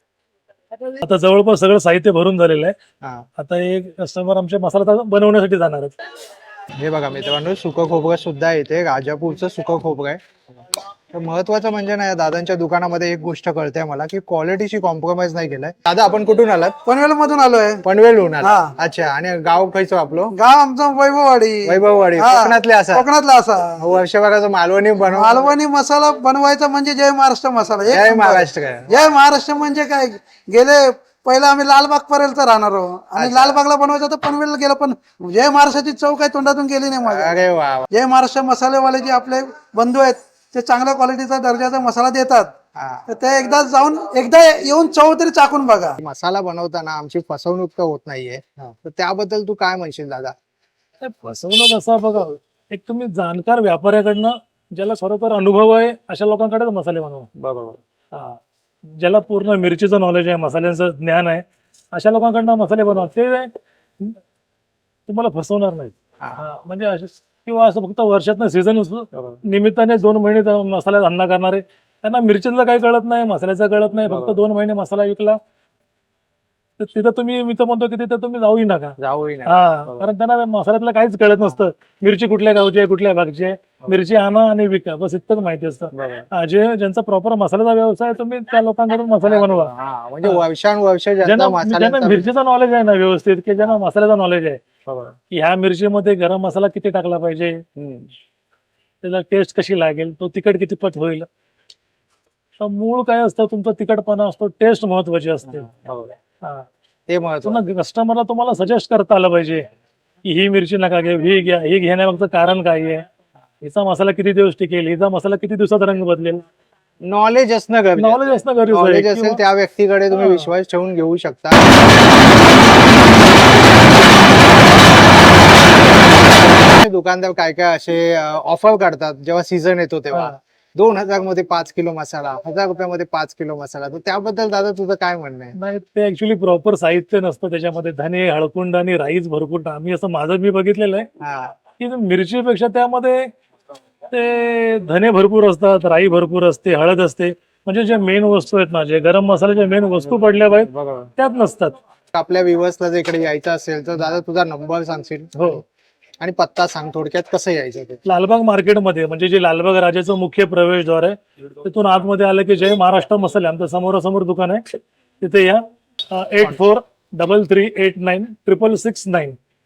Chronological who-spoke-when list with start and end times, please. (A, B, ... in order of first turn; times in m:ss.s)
0:00.8-0:02.7 A
0:03.4-0:05.9 A
0:06.8-0:10.2 B
0:11.1-0:16.8 B
0:16.8-0:17.8 C
0:17.8-0:20.3 B
0:18.4-0:18.7 C
0:20.3-0:23.8 C
0:21.6-0:23.1 B
0:23.8-0:25.4 B
0:25.1-0:37.4 C
0:27.9-0:29.0 B
0:33.2-0:33.6 B
0:37.0-0:37.8 B
0:37.9-0:42.5 C
0:42.8-0:43.0 B
0:43.1-0:46.0 C
0:46.0-0:50.3 B
0:51.0-0:57.3 A
0:57.4-0:57.8 B
0:58.1-0:58.4 A
0:59.0-1:03.5 A
1:05.1-1:15.4 A
1:09.1-1:09.4 B
1:14.1-1:14.4 B
1:16.8-1:29.7 A
1:19.0-1:20.1 B
1:25.9-1:26.3 B
1:29.2-1:32.3 B
1:31.2-1:34.6 A
1:34.8-1:35.1 B
1:35.3-1:37.6 A
1:37.8-1:38.1 B
1:39.0-1:41.3 A
1:42.6-1:45.7 A
1:45.5-1:46.1 B
1:47.1-1:47.6 B
1:47.4-1:49.7 A
1:50.2-1:53.0 A
1:53.6-1:56.4 A
1:57.0-2:02.2 B
1:58.0-1:59.4 A
2:00.1-2:00.5 A
2:05.7-2:15.5 B
2:15.6-2:21.0 A
2:21.2-2:21.5 B
2:21.8-2:23.3 A
2:24.1-2:31.7 A
2:30.2-2:31.1 B
2:32.1-2:35.5 B
2:35.3-2:35.6 A
2:36.2-2:38.0 B
2:38.0-2:49.4 A